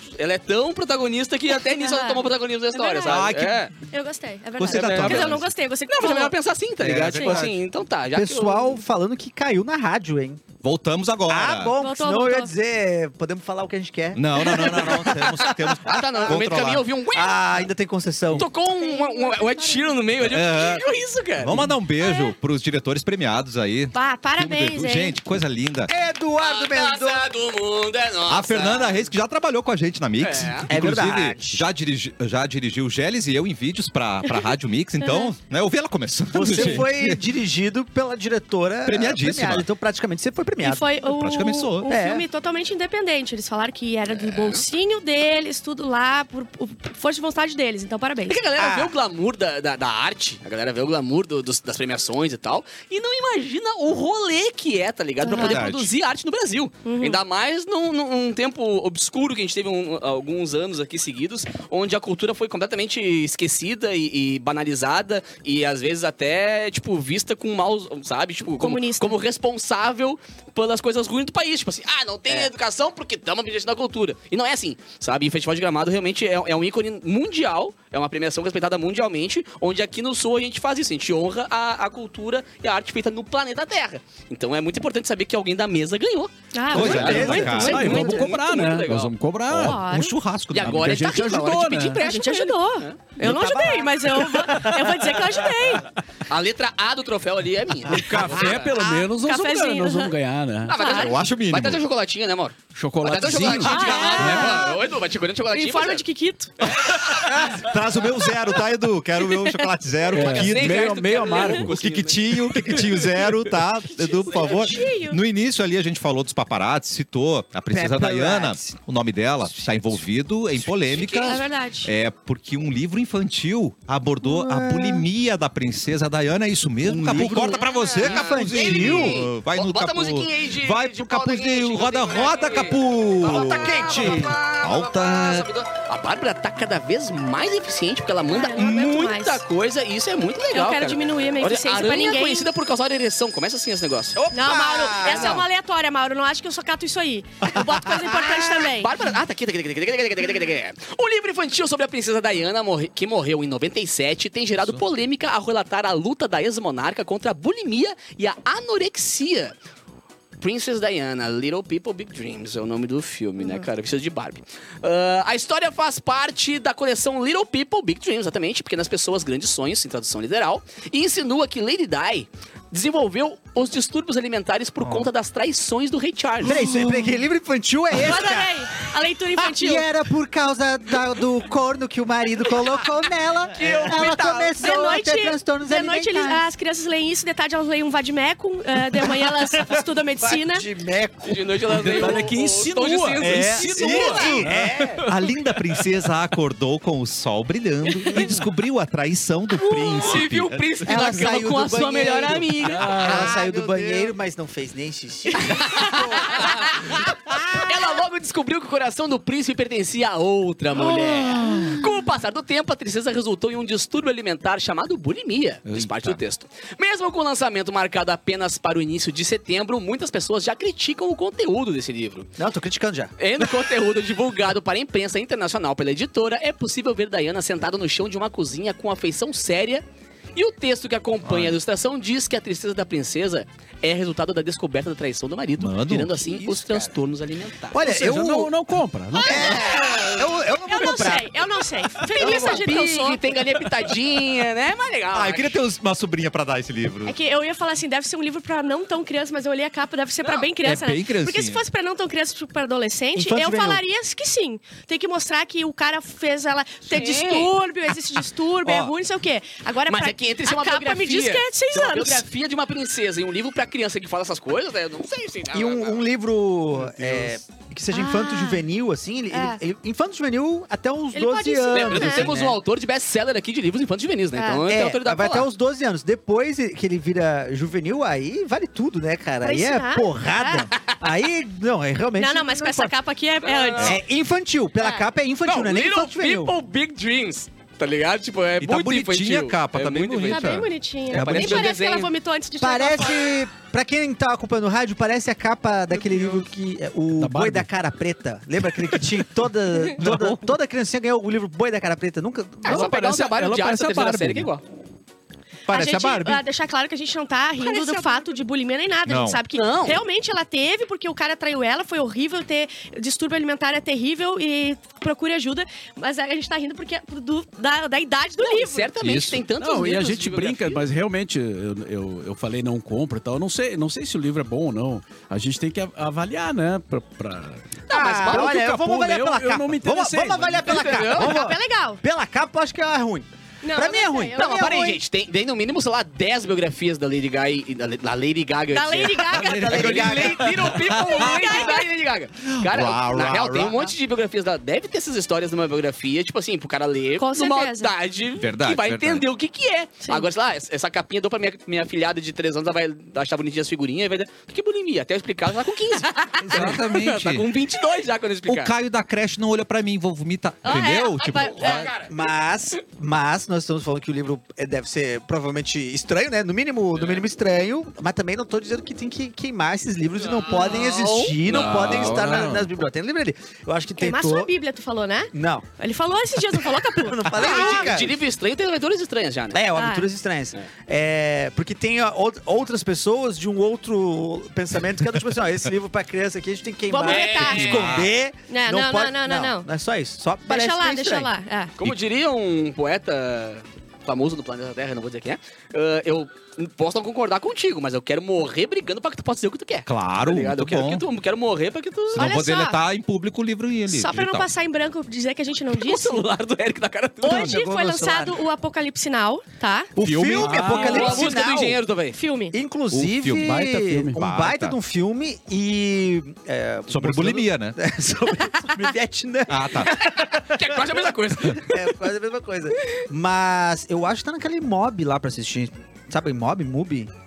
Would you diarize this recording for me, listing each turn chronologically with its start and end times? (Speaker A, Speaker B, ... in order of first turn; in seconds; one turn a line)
Speaker A: 0.1-3.7
Speaker B: 1.6-3.2
Speaker C: 3.0-3.7
Speaker B: 3.9-6.3
Speaker C: 4.6-5.5
Speaker A: 4.7-8.8
Speaker C: 6.8-7.6
Speaker D: 8.1-10.4
Speaker C: 10.6-11.7
Speaker D: 11.3-15.7
Speaker B: 11.8-12.5
Speaker C: 14.1-16.9
Speaker A: 14.4-17.7
Speaker D: 17.1-18.5
Speaker A: 18.3-21.7
Speaker B: 18.6-20.0
Speaker C: 20.2-20.8
Speaker C: 21.4-25.9
Speaker B: 22.0-22.3
Speaker B: 23.9-25.2
Speaker D: 25.9-27.2
Speaker A: 26.4-29.1
Speaker C: 28.3-37.2
Speaker A: 30.2-30.7
Speaker D: 30.7-31.6
Speaker B: 34.3-35.3
Speaker D: 36.3-40.9
Speaker C: 38.9-39.6
Speaker B: 40.6-48.4
Speaker C: 41.0-41.9
Speaker D: 41.9-42.2
Speaker A: 44.1-44.6
Speaker A: 48.3-89.1
Speaker D: 48.6-48.9
Speaker B: 55.2-55.6
Speaker C: 55.3-55.9
Speaker B: 56.8-57.2
Speaker B: 68.6-69.2
Speaker B: 86.5-88.0
Speaker C: 86.7-88.1
Speaker D: 86.7-88.2
Speaker E: 87.1-89.8
Speaker C: 89.5-91.1
Speaker B: 89.6-90.1
Speaker A: 90.5-93.0
Speaker E: 90.6-92.0
Speaker B: 92.0-95.9
Speaker D: 93.2-94.6
Speaker E: 94.4-95.3
Speaker A: 96.3-98.8
Speaker E: 97.9-100.8
Speaker B: 99.1-100.1
Speaker A: 100.7-106.0
Speaker B: 100.7-101.1
Speaker C: 100.8-101.8
Speaker E: 102.7-104.6
Speaker C: 103.3-103.6
Speaker B: 103.6-104.8
Speaker B: 105.5-106.6
Speaker A: 106.6-107.5
Speaker C: 106.7-135.5
Speaker B: 109.3-109.7
Speaker E: 110.1-111.7
Speaker A: 110.1-113.0
Speaker B: 114.0-115.2
Speaker D: 117.7-118.8
Speaker D: 119.4-120.0
Speaker A: 120.8-121.4
Speaker B: 121.2-121.9
Speaker D: 124.2-125.0
Speaker D: 126.8-129.3
Speaker A: 127.1-144.3
Speaker D: 133.3-134.4
Speaker B: 138.3-139.4
Speaker B: 140.5-142.5
Speaker D: 144.2-145.4
Speaker B: 144.3-148.9
Speaker A: 144.9-145.4
Speaker A: 148.5-159.5
Speaker A: 160.4-176.6
Speaker B: 163.4-163.7
Speaker D: 176.4-178.6
Speaker C: 176.6-176.9
Speaker B: 177.9-179.8
Speaker D: 179.4-186.4
Speaker A: 183.5-184.6
Speaker B: 184.6-190.7
Speaker D: 189.6-192.3
Speaker A: 191.2-194.3
Speaker E: 191.7-195.3
Speaker D: 193.2-195.0
Speaker C: 193.2-200.6
Speaker D: 198.1-198.4
Speaker A: 199.6-203.5
Speaker D: 200.8-206.5
Speaker E: 202.6-203.3
Speaker C: 203.3-203.8
Speaker A: 205.4-222.3
Speaker D: 210.9-211.6
Speaker C: 211.4-211.8
Speaker C: 215.7-216.2
Speaker D: 222.4-223.1
Speaker A: 223.2-229.8
Speaker A: 230.3-237.8
Speaker C: 231.2-231.5
Speaker C: 235.6-236.2
Speaker D: 236.4-236.8
Speaker D: 237.7-238.5
Speaker E: 237.8-239.5
Speaker A: 239.2-240.2
Speaker D: 239.2-241.4
Speaker B: 239.4-240.0
Speaker B: 240.7-243.2
Speaker D: 242.0-242.7
Speaker A: 242.1-245.6
Speaker C: 245.1-247.1
Speaker B: 247.0-262.2
Speaker C: 250.6-251.6
Speaker D: 253.1-253.8
Speaker A: 256.9-257.5
Speaker D: 258.6-258.9
Speaker A: 259.9-266.0
Speaker D: 265.5-272.6
Speaker E: 266.9-267.3
Speaker B: 267.9-268.6
Speaker B: 269.3-269.6
Speaker B: 271.1-272.3
Speaker A: 271.7-275.5
Speaker B: 274.4-274.6
Speaker D: 274.7-282.9
Speaker B: 279.4-280.7
Speaker B: 282.2-284.0
Speaker A: 283.4-284.0
Speaker D: 283.8-286.5
Speaker A: 285.4-290.6
Speaker C: 288.6-290.7
Speaker B: 290.2-293.3
Speaker A: 291.1-292.1
Speaker D: 291.1-291.8
Speaker D: 292.6-302.9
Speaker E: 296.0-296.4
Speaker E: 297.1-297.7
Speaker C: 300.0-300.5
Speaker A: 302.6-304.6
Speaker E: 302.6-304.5
Speaker C: 305.7-306.4
Speaker B: 305.7-318.9
Speaker C: 309.1-309.4
Speaker A: 309.5-310.0
Speaker A: 318.4-320.8
Speaker C: 319.0-319.4
Speaker E: 319.5-331.0
Speaker A: 327.9-328.6
Speaker D: 327.9-335.0
Speaker A: 330.6-331.4
Speaker B: 331.1-332.0
Speaker B: 333.6-334.6
Speaker A: 334.4-358.7
Speaker B: 338.7-340.2
Speaker C: 339.3-341.4
Speaker D: 339.4-340.7
Speaker B: 340.9-341.9
Speaker C: 342.4-343.9
Speaker B: 347.2-347.9
Speaker C: 348.4-349.2
Speaker C: 356.4-357.5
Speaker C: 358.4-361.9
Speaker B: 360.6-361.9
Speaker A: 361.2-362.1
Speaker D: 362.1-374.5
Speaker A: 370.2-372.4
Speaker C: 371.5-372.4
Speaker E: 371.7-372.7
Speaker B: 374.0-377.9
Speaker D: 375.3-375.6
Speaker D: 376.6-378.2
Speaker A: 377.3-379.6
Speaker D: 379.5-391.3
Speaker B: 379.8-380.1
Speaker B: 386.9-389.7
Speaker A: 387.0-387.9
Speaker C: 387.4-388.1
Speaker B: 390.4-391.7
Speaker A: 391.8-402.3
Speaker C: 399.9-401.0
Speaker C: 402.1-404.5
Speaker B: 402.2-402.8
Speaker B: 403.9-406.2
Speaker A: 405.7-407.6
Speaker B: 407.2-409.9
Speaker D: 407.2-408.4
Speaker D: 410.0-411.8
Speaker C: 410.0-410.7
Speaker E: 410.4-411.1
Speaker A: 410.6-412.2
Speaker B: 410.9-411.2
Speaker B: 412.1-412.5
Speaker D: 412.5-420.9
Speaker C: 412.9-413.6
Speaker E: 413.4-414.2
Speaker C: 414.1-414.8
Speaker C: 416.9-417.8
Speaker C: 419.5-419.9
Speaker A: 419.9-421.9
Speaker D: 421.5-427.1